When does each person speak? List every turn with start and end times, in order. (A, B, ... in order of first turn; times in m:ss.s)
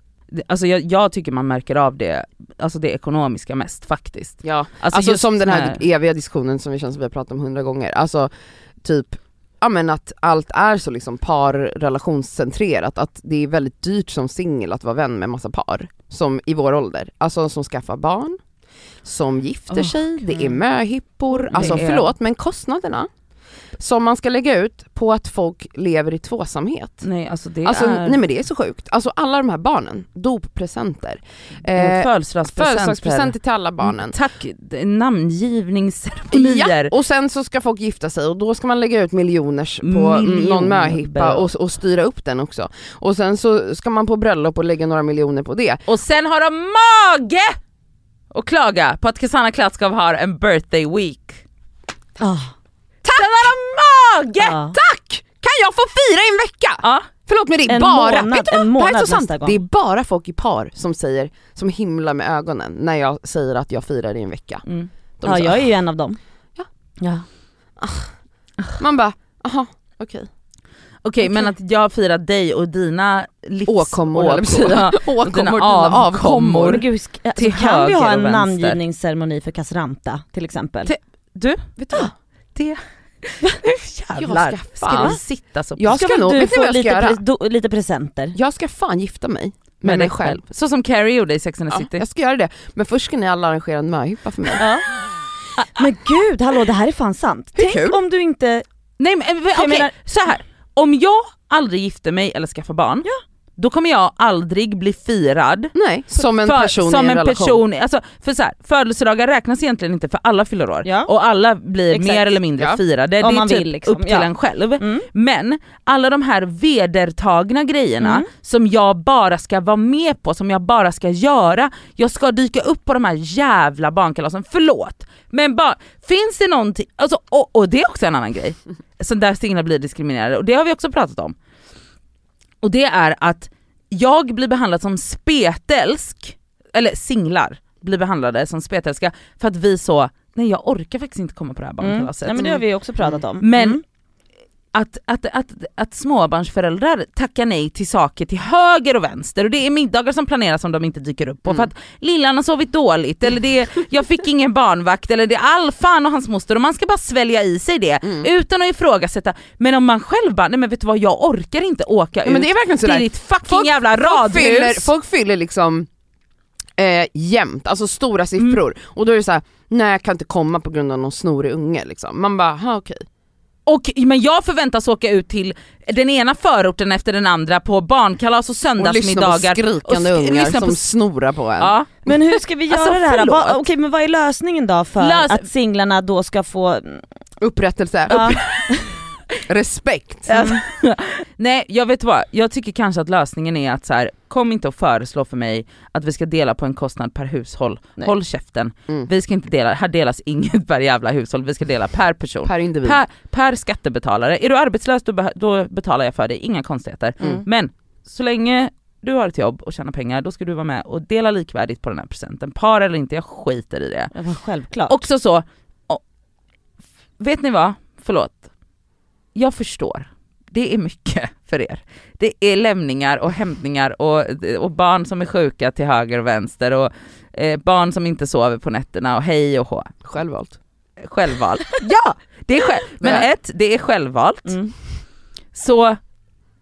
0:00.3-0:05.8 A
0:04.4-0:08.3 B
0:08.8-0:18.4 B
0:19.0-0:23.1 B
0:19.7-0:20.5 A
0:21.3-0:22.1 A
0:23.8-0:27.1 B
0:27.0-0:28.2 A
0:27.6-0:34.2 B
0:31.7-0:36.9 A
0:36.3-0:45.8 B
0:39.8-0:41.5 A
0:45.9-0:47.5 A
0:48.3-0:51.4 A
0:52.2-0:52.5 C
0:53.0-0:53.5 B
0:53.0-0:54.6 A
0:54.4-0:54.8 C
0:54.7-1:04.6 B
0:56.8-0:57.1 A
0:57.7-0:59.6 C
1:04.6-1:06.2 C
1:05.2-1:05.7 B
1:07.0-1:07.2 C
1:07.8-1:08.1 B
1:08.8-1:10.3 B
1:11.0-1:16.8 A
1:13.6-1:16.8 B
1:16.7-1:20.9 C
1:17.4-1:18.8 A
1:20.8-1:26.1 A
1:24.2-1:25.2 B
1:24.9-1:25.2 C
1:25.8-1:27.2 B
1:25.9-1:28.4 C
1:28.3-1:30.4 B
1:29.8-1:32.0 A
1:31.7-1:34.6 B
1:34.6-1:34.8 C
1:35.7-1:38.6 C
1:37.5-1:38.0 B
1:39.0-1:43.1 A
1:39.5-1:39.9 C
1:43.6-2:11.3 A
1:45.7-1:47.6 B
1:50.8-1:51.1 C
1:51.9-1:52.8 B
1:53.2-1:55.1 C
1:58.0-1:58.3 C
2:12.6-2:22.6 A
2:21.8-2:23.8 C
2:23.4-2:23.8 A
2:24.7-2:44.9 A
2:38.0-2:38.3 B
2:42.2-2:45.9 B
2:46.8-2:53.0 B
2:53.6-3:00.9 A
2:58.8-3:01.7 B
3:01.6-3:03.7 A
3:02.0-3:07.0 C
3:05.0-3:05.5 A
3:07.4-3:08.5 B
3:08.1-3:08.8 C
3:09.5-3:10.4 B
3:10.3-3:34.1 A
3:10.3-3:10.6 C
3:22.4-3:23.0 B
3:34.1-3:35.0 C
3:34.9-3:36.0 A
3:37.2-3:38.4 A
3:39.3-3:49.9 A
3:50.0-3:50.6 B
3:51.0-3:54.6 A
3:53.0-3:53.3 B
3:54.4-3:54.7 C
3:55.5-3:56.0 A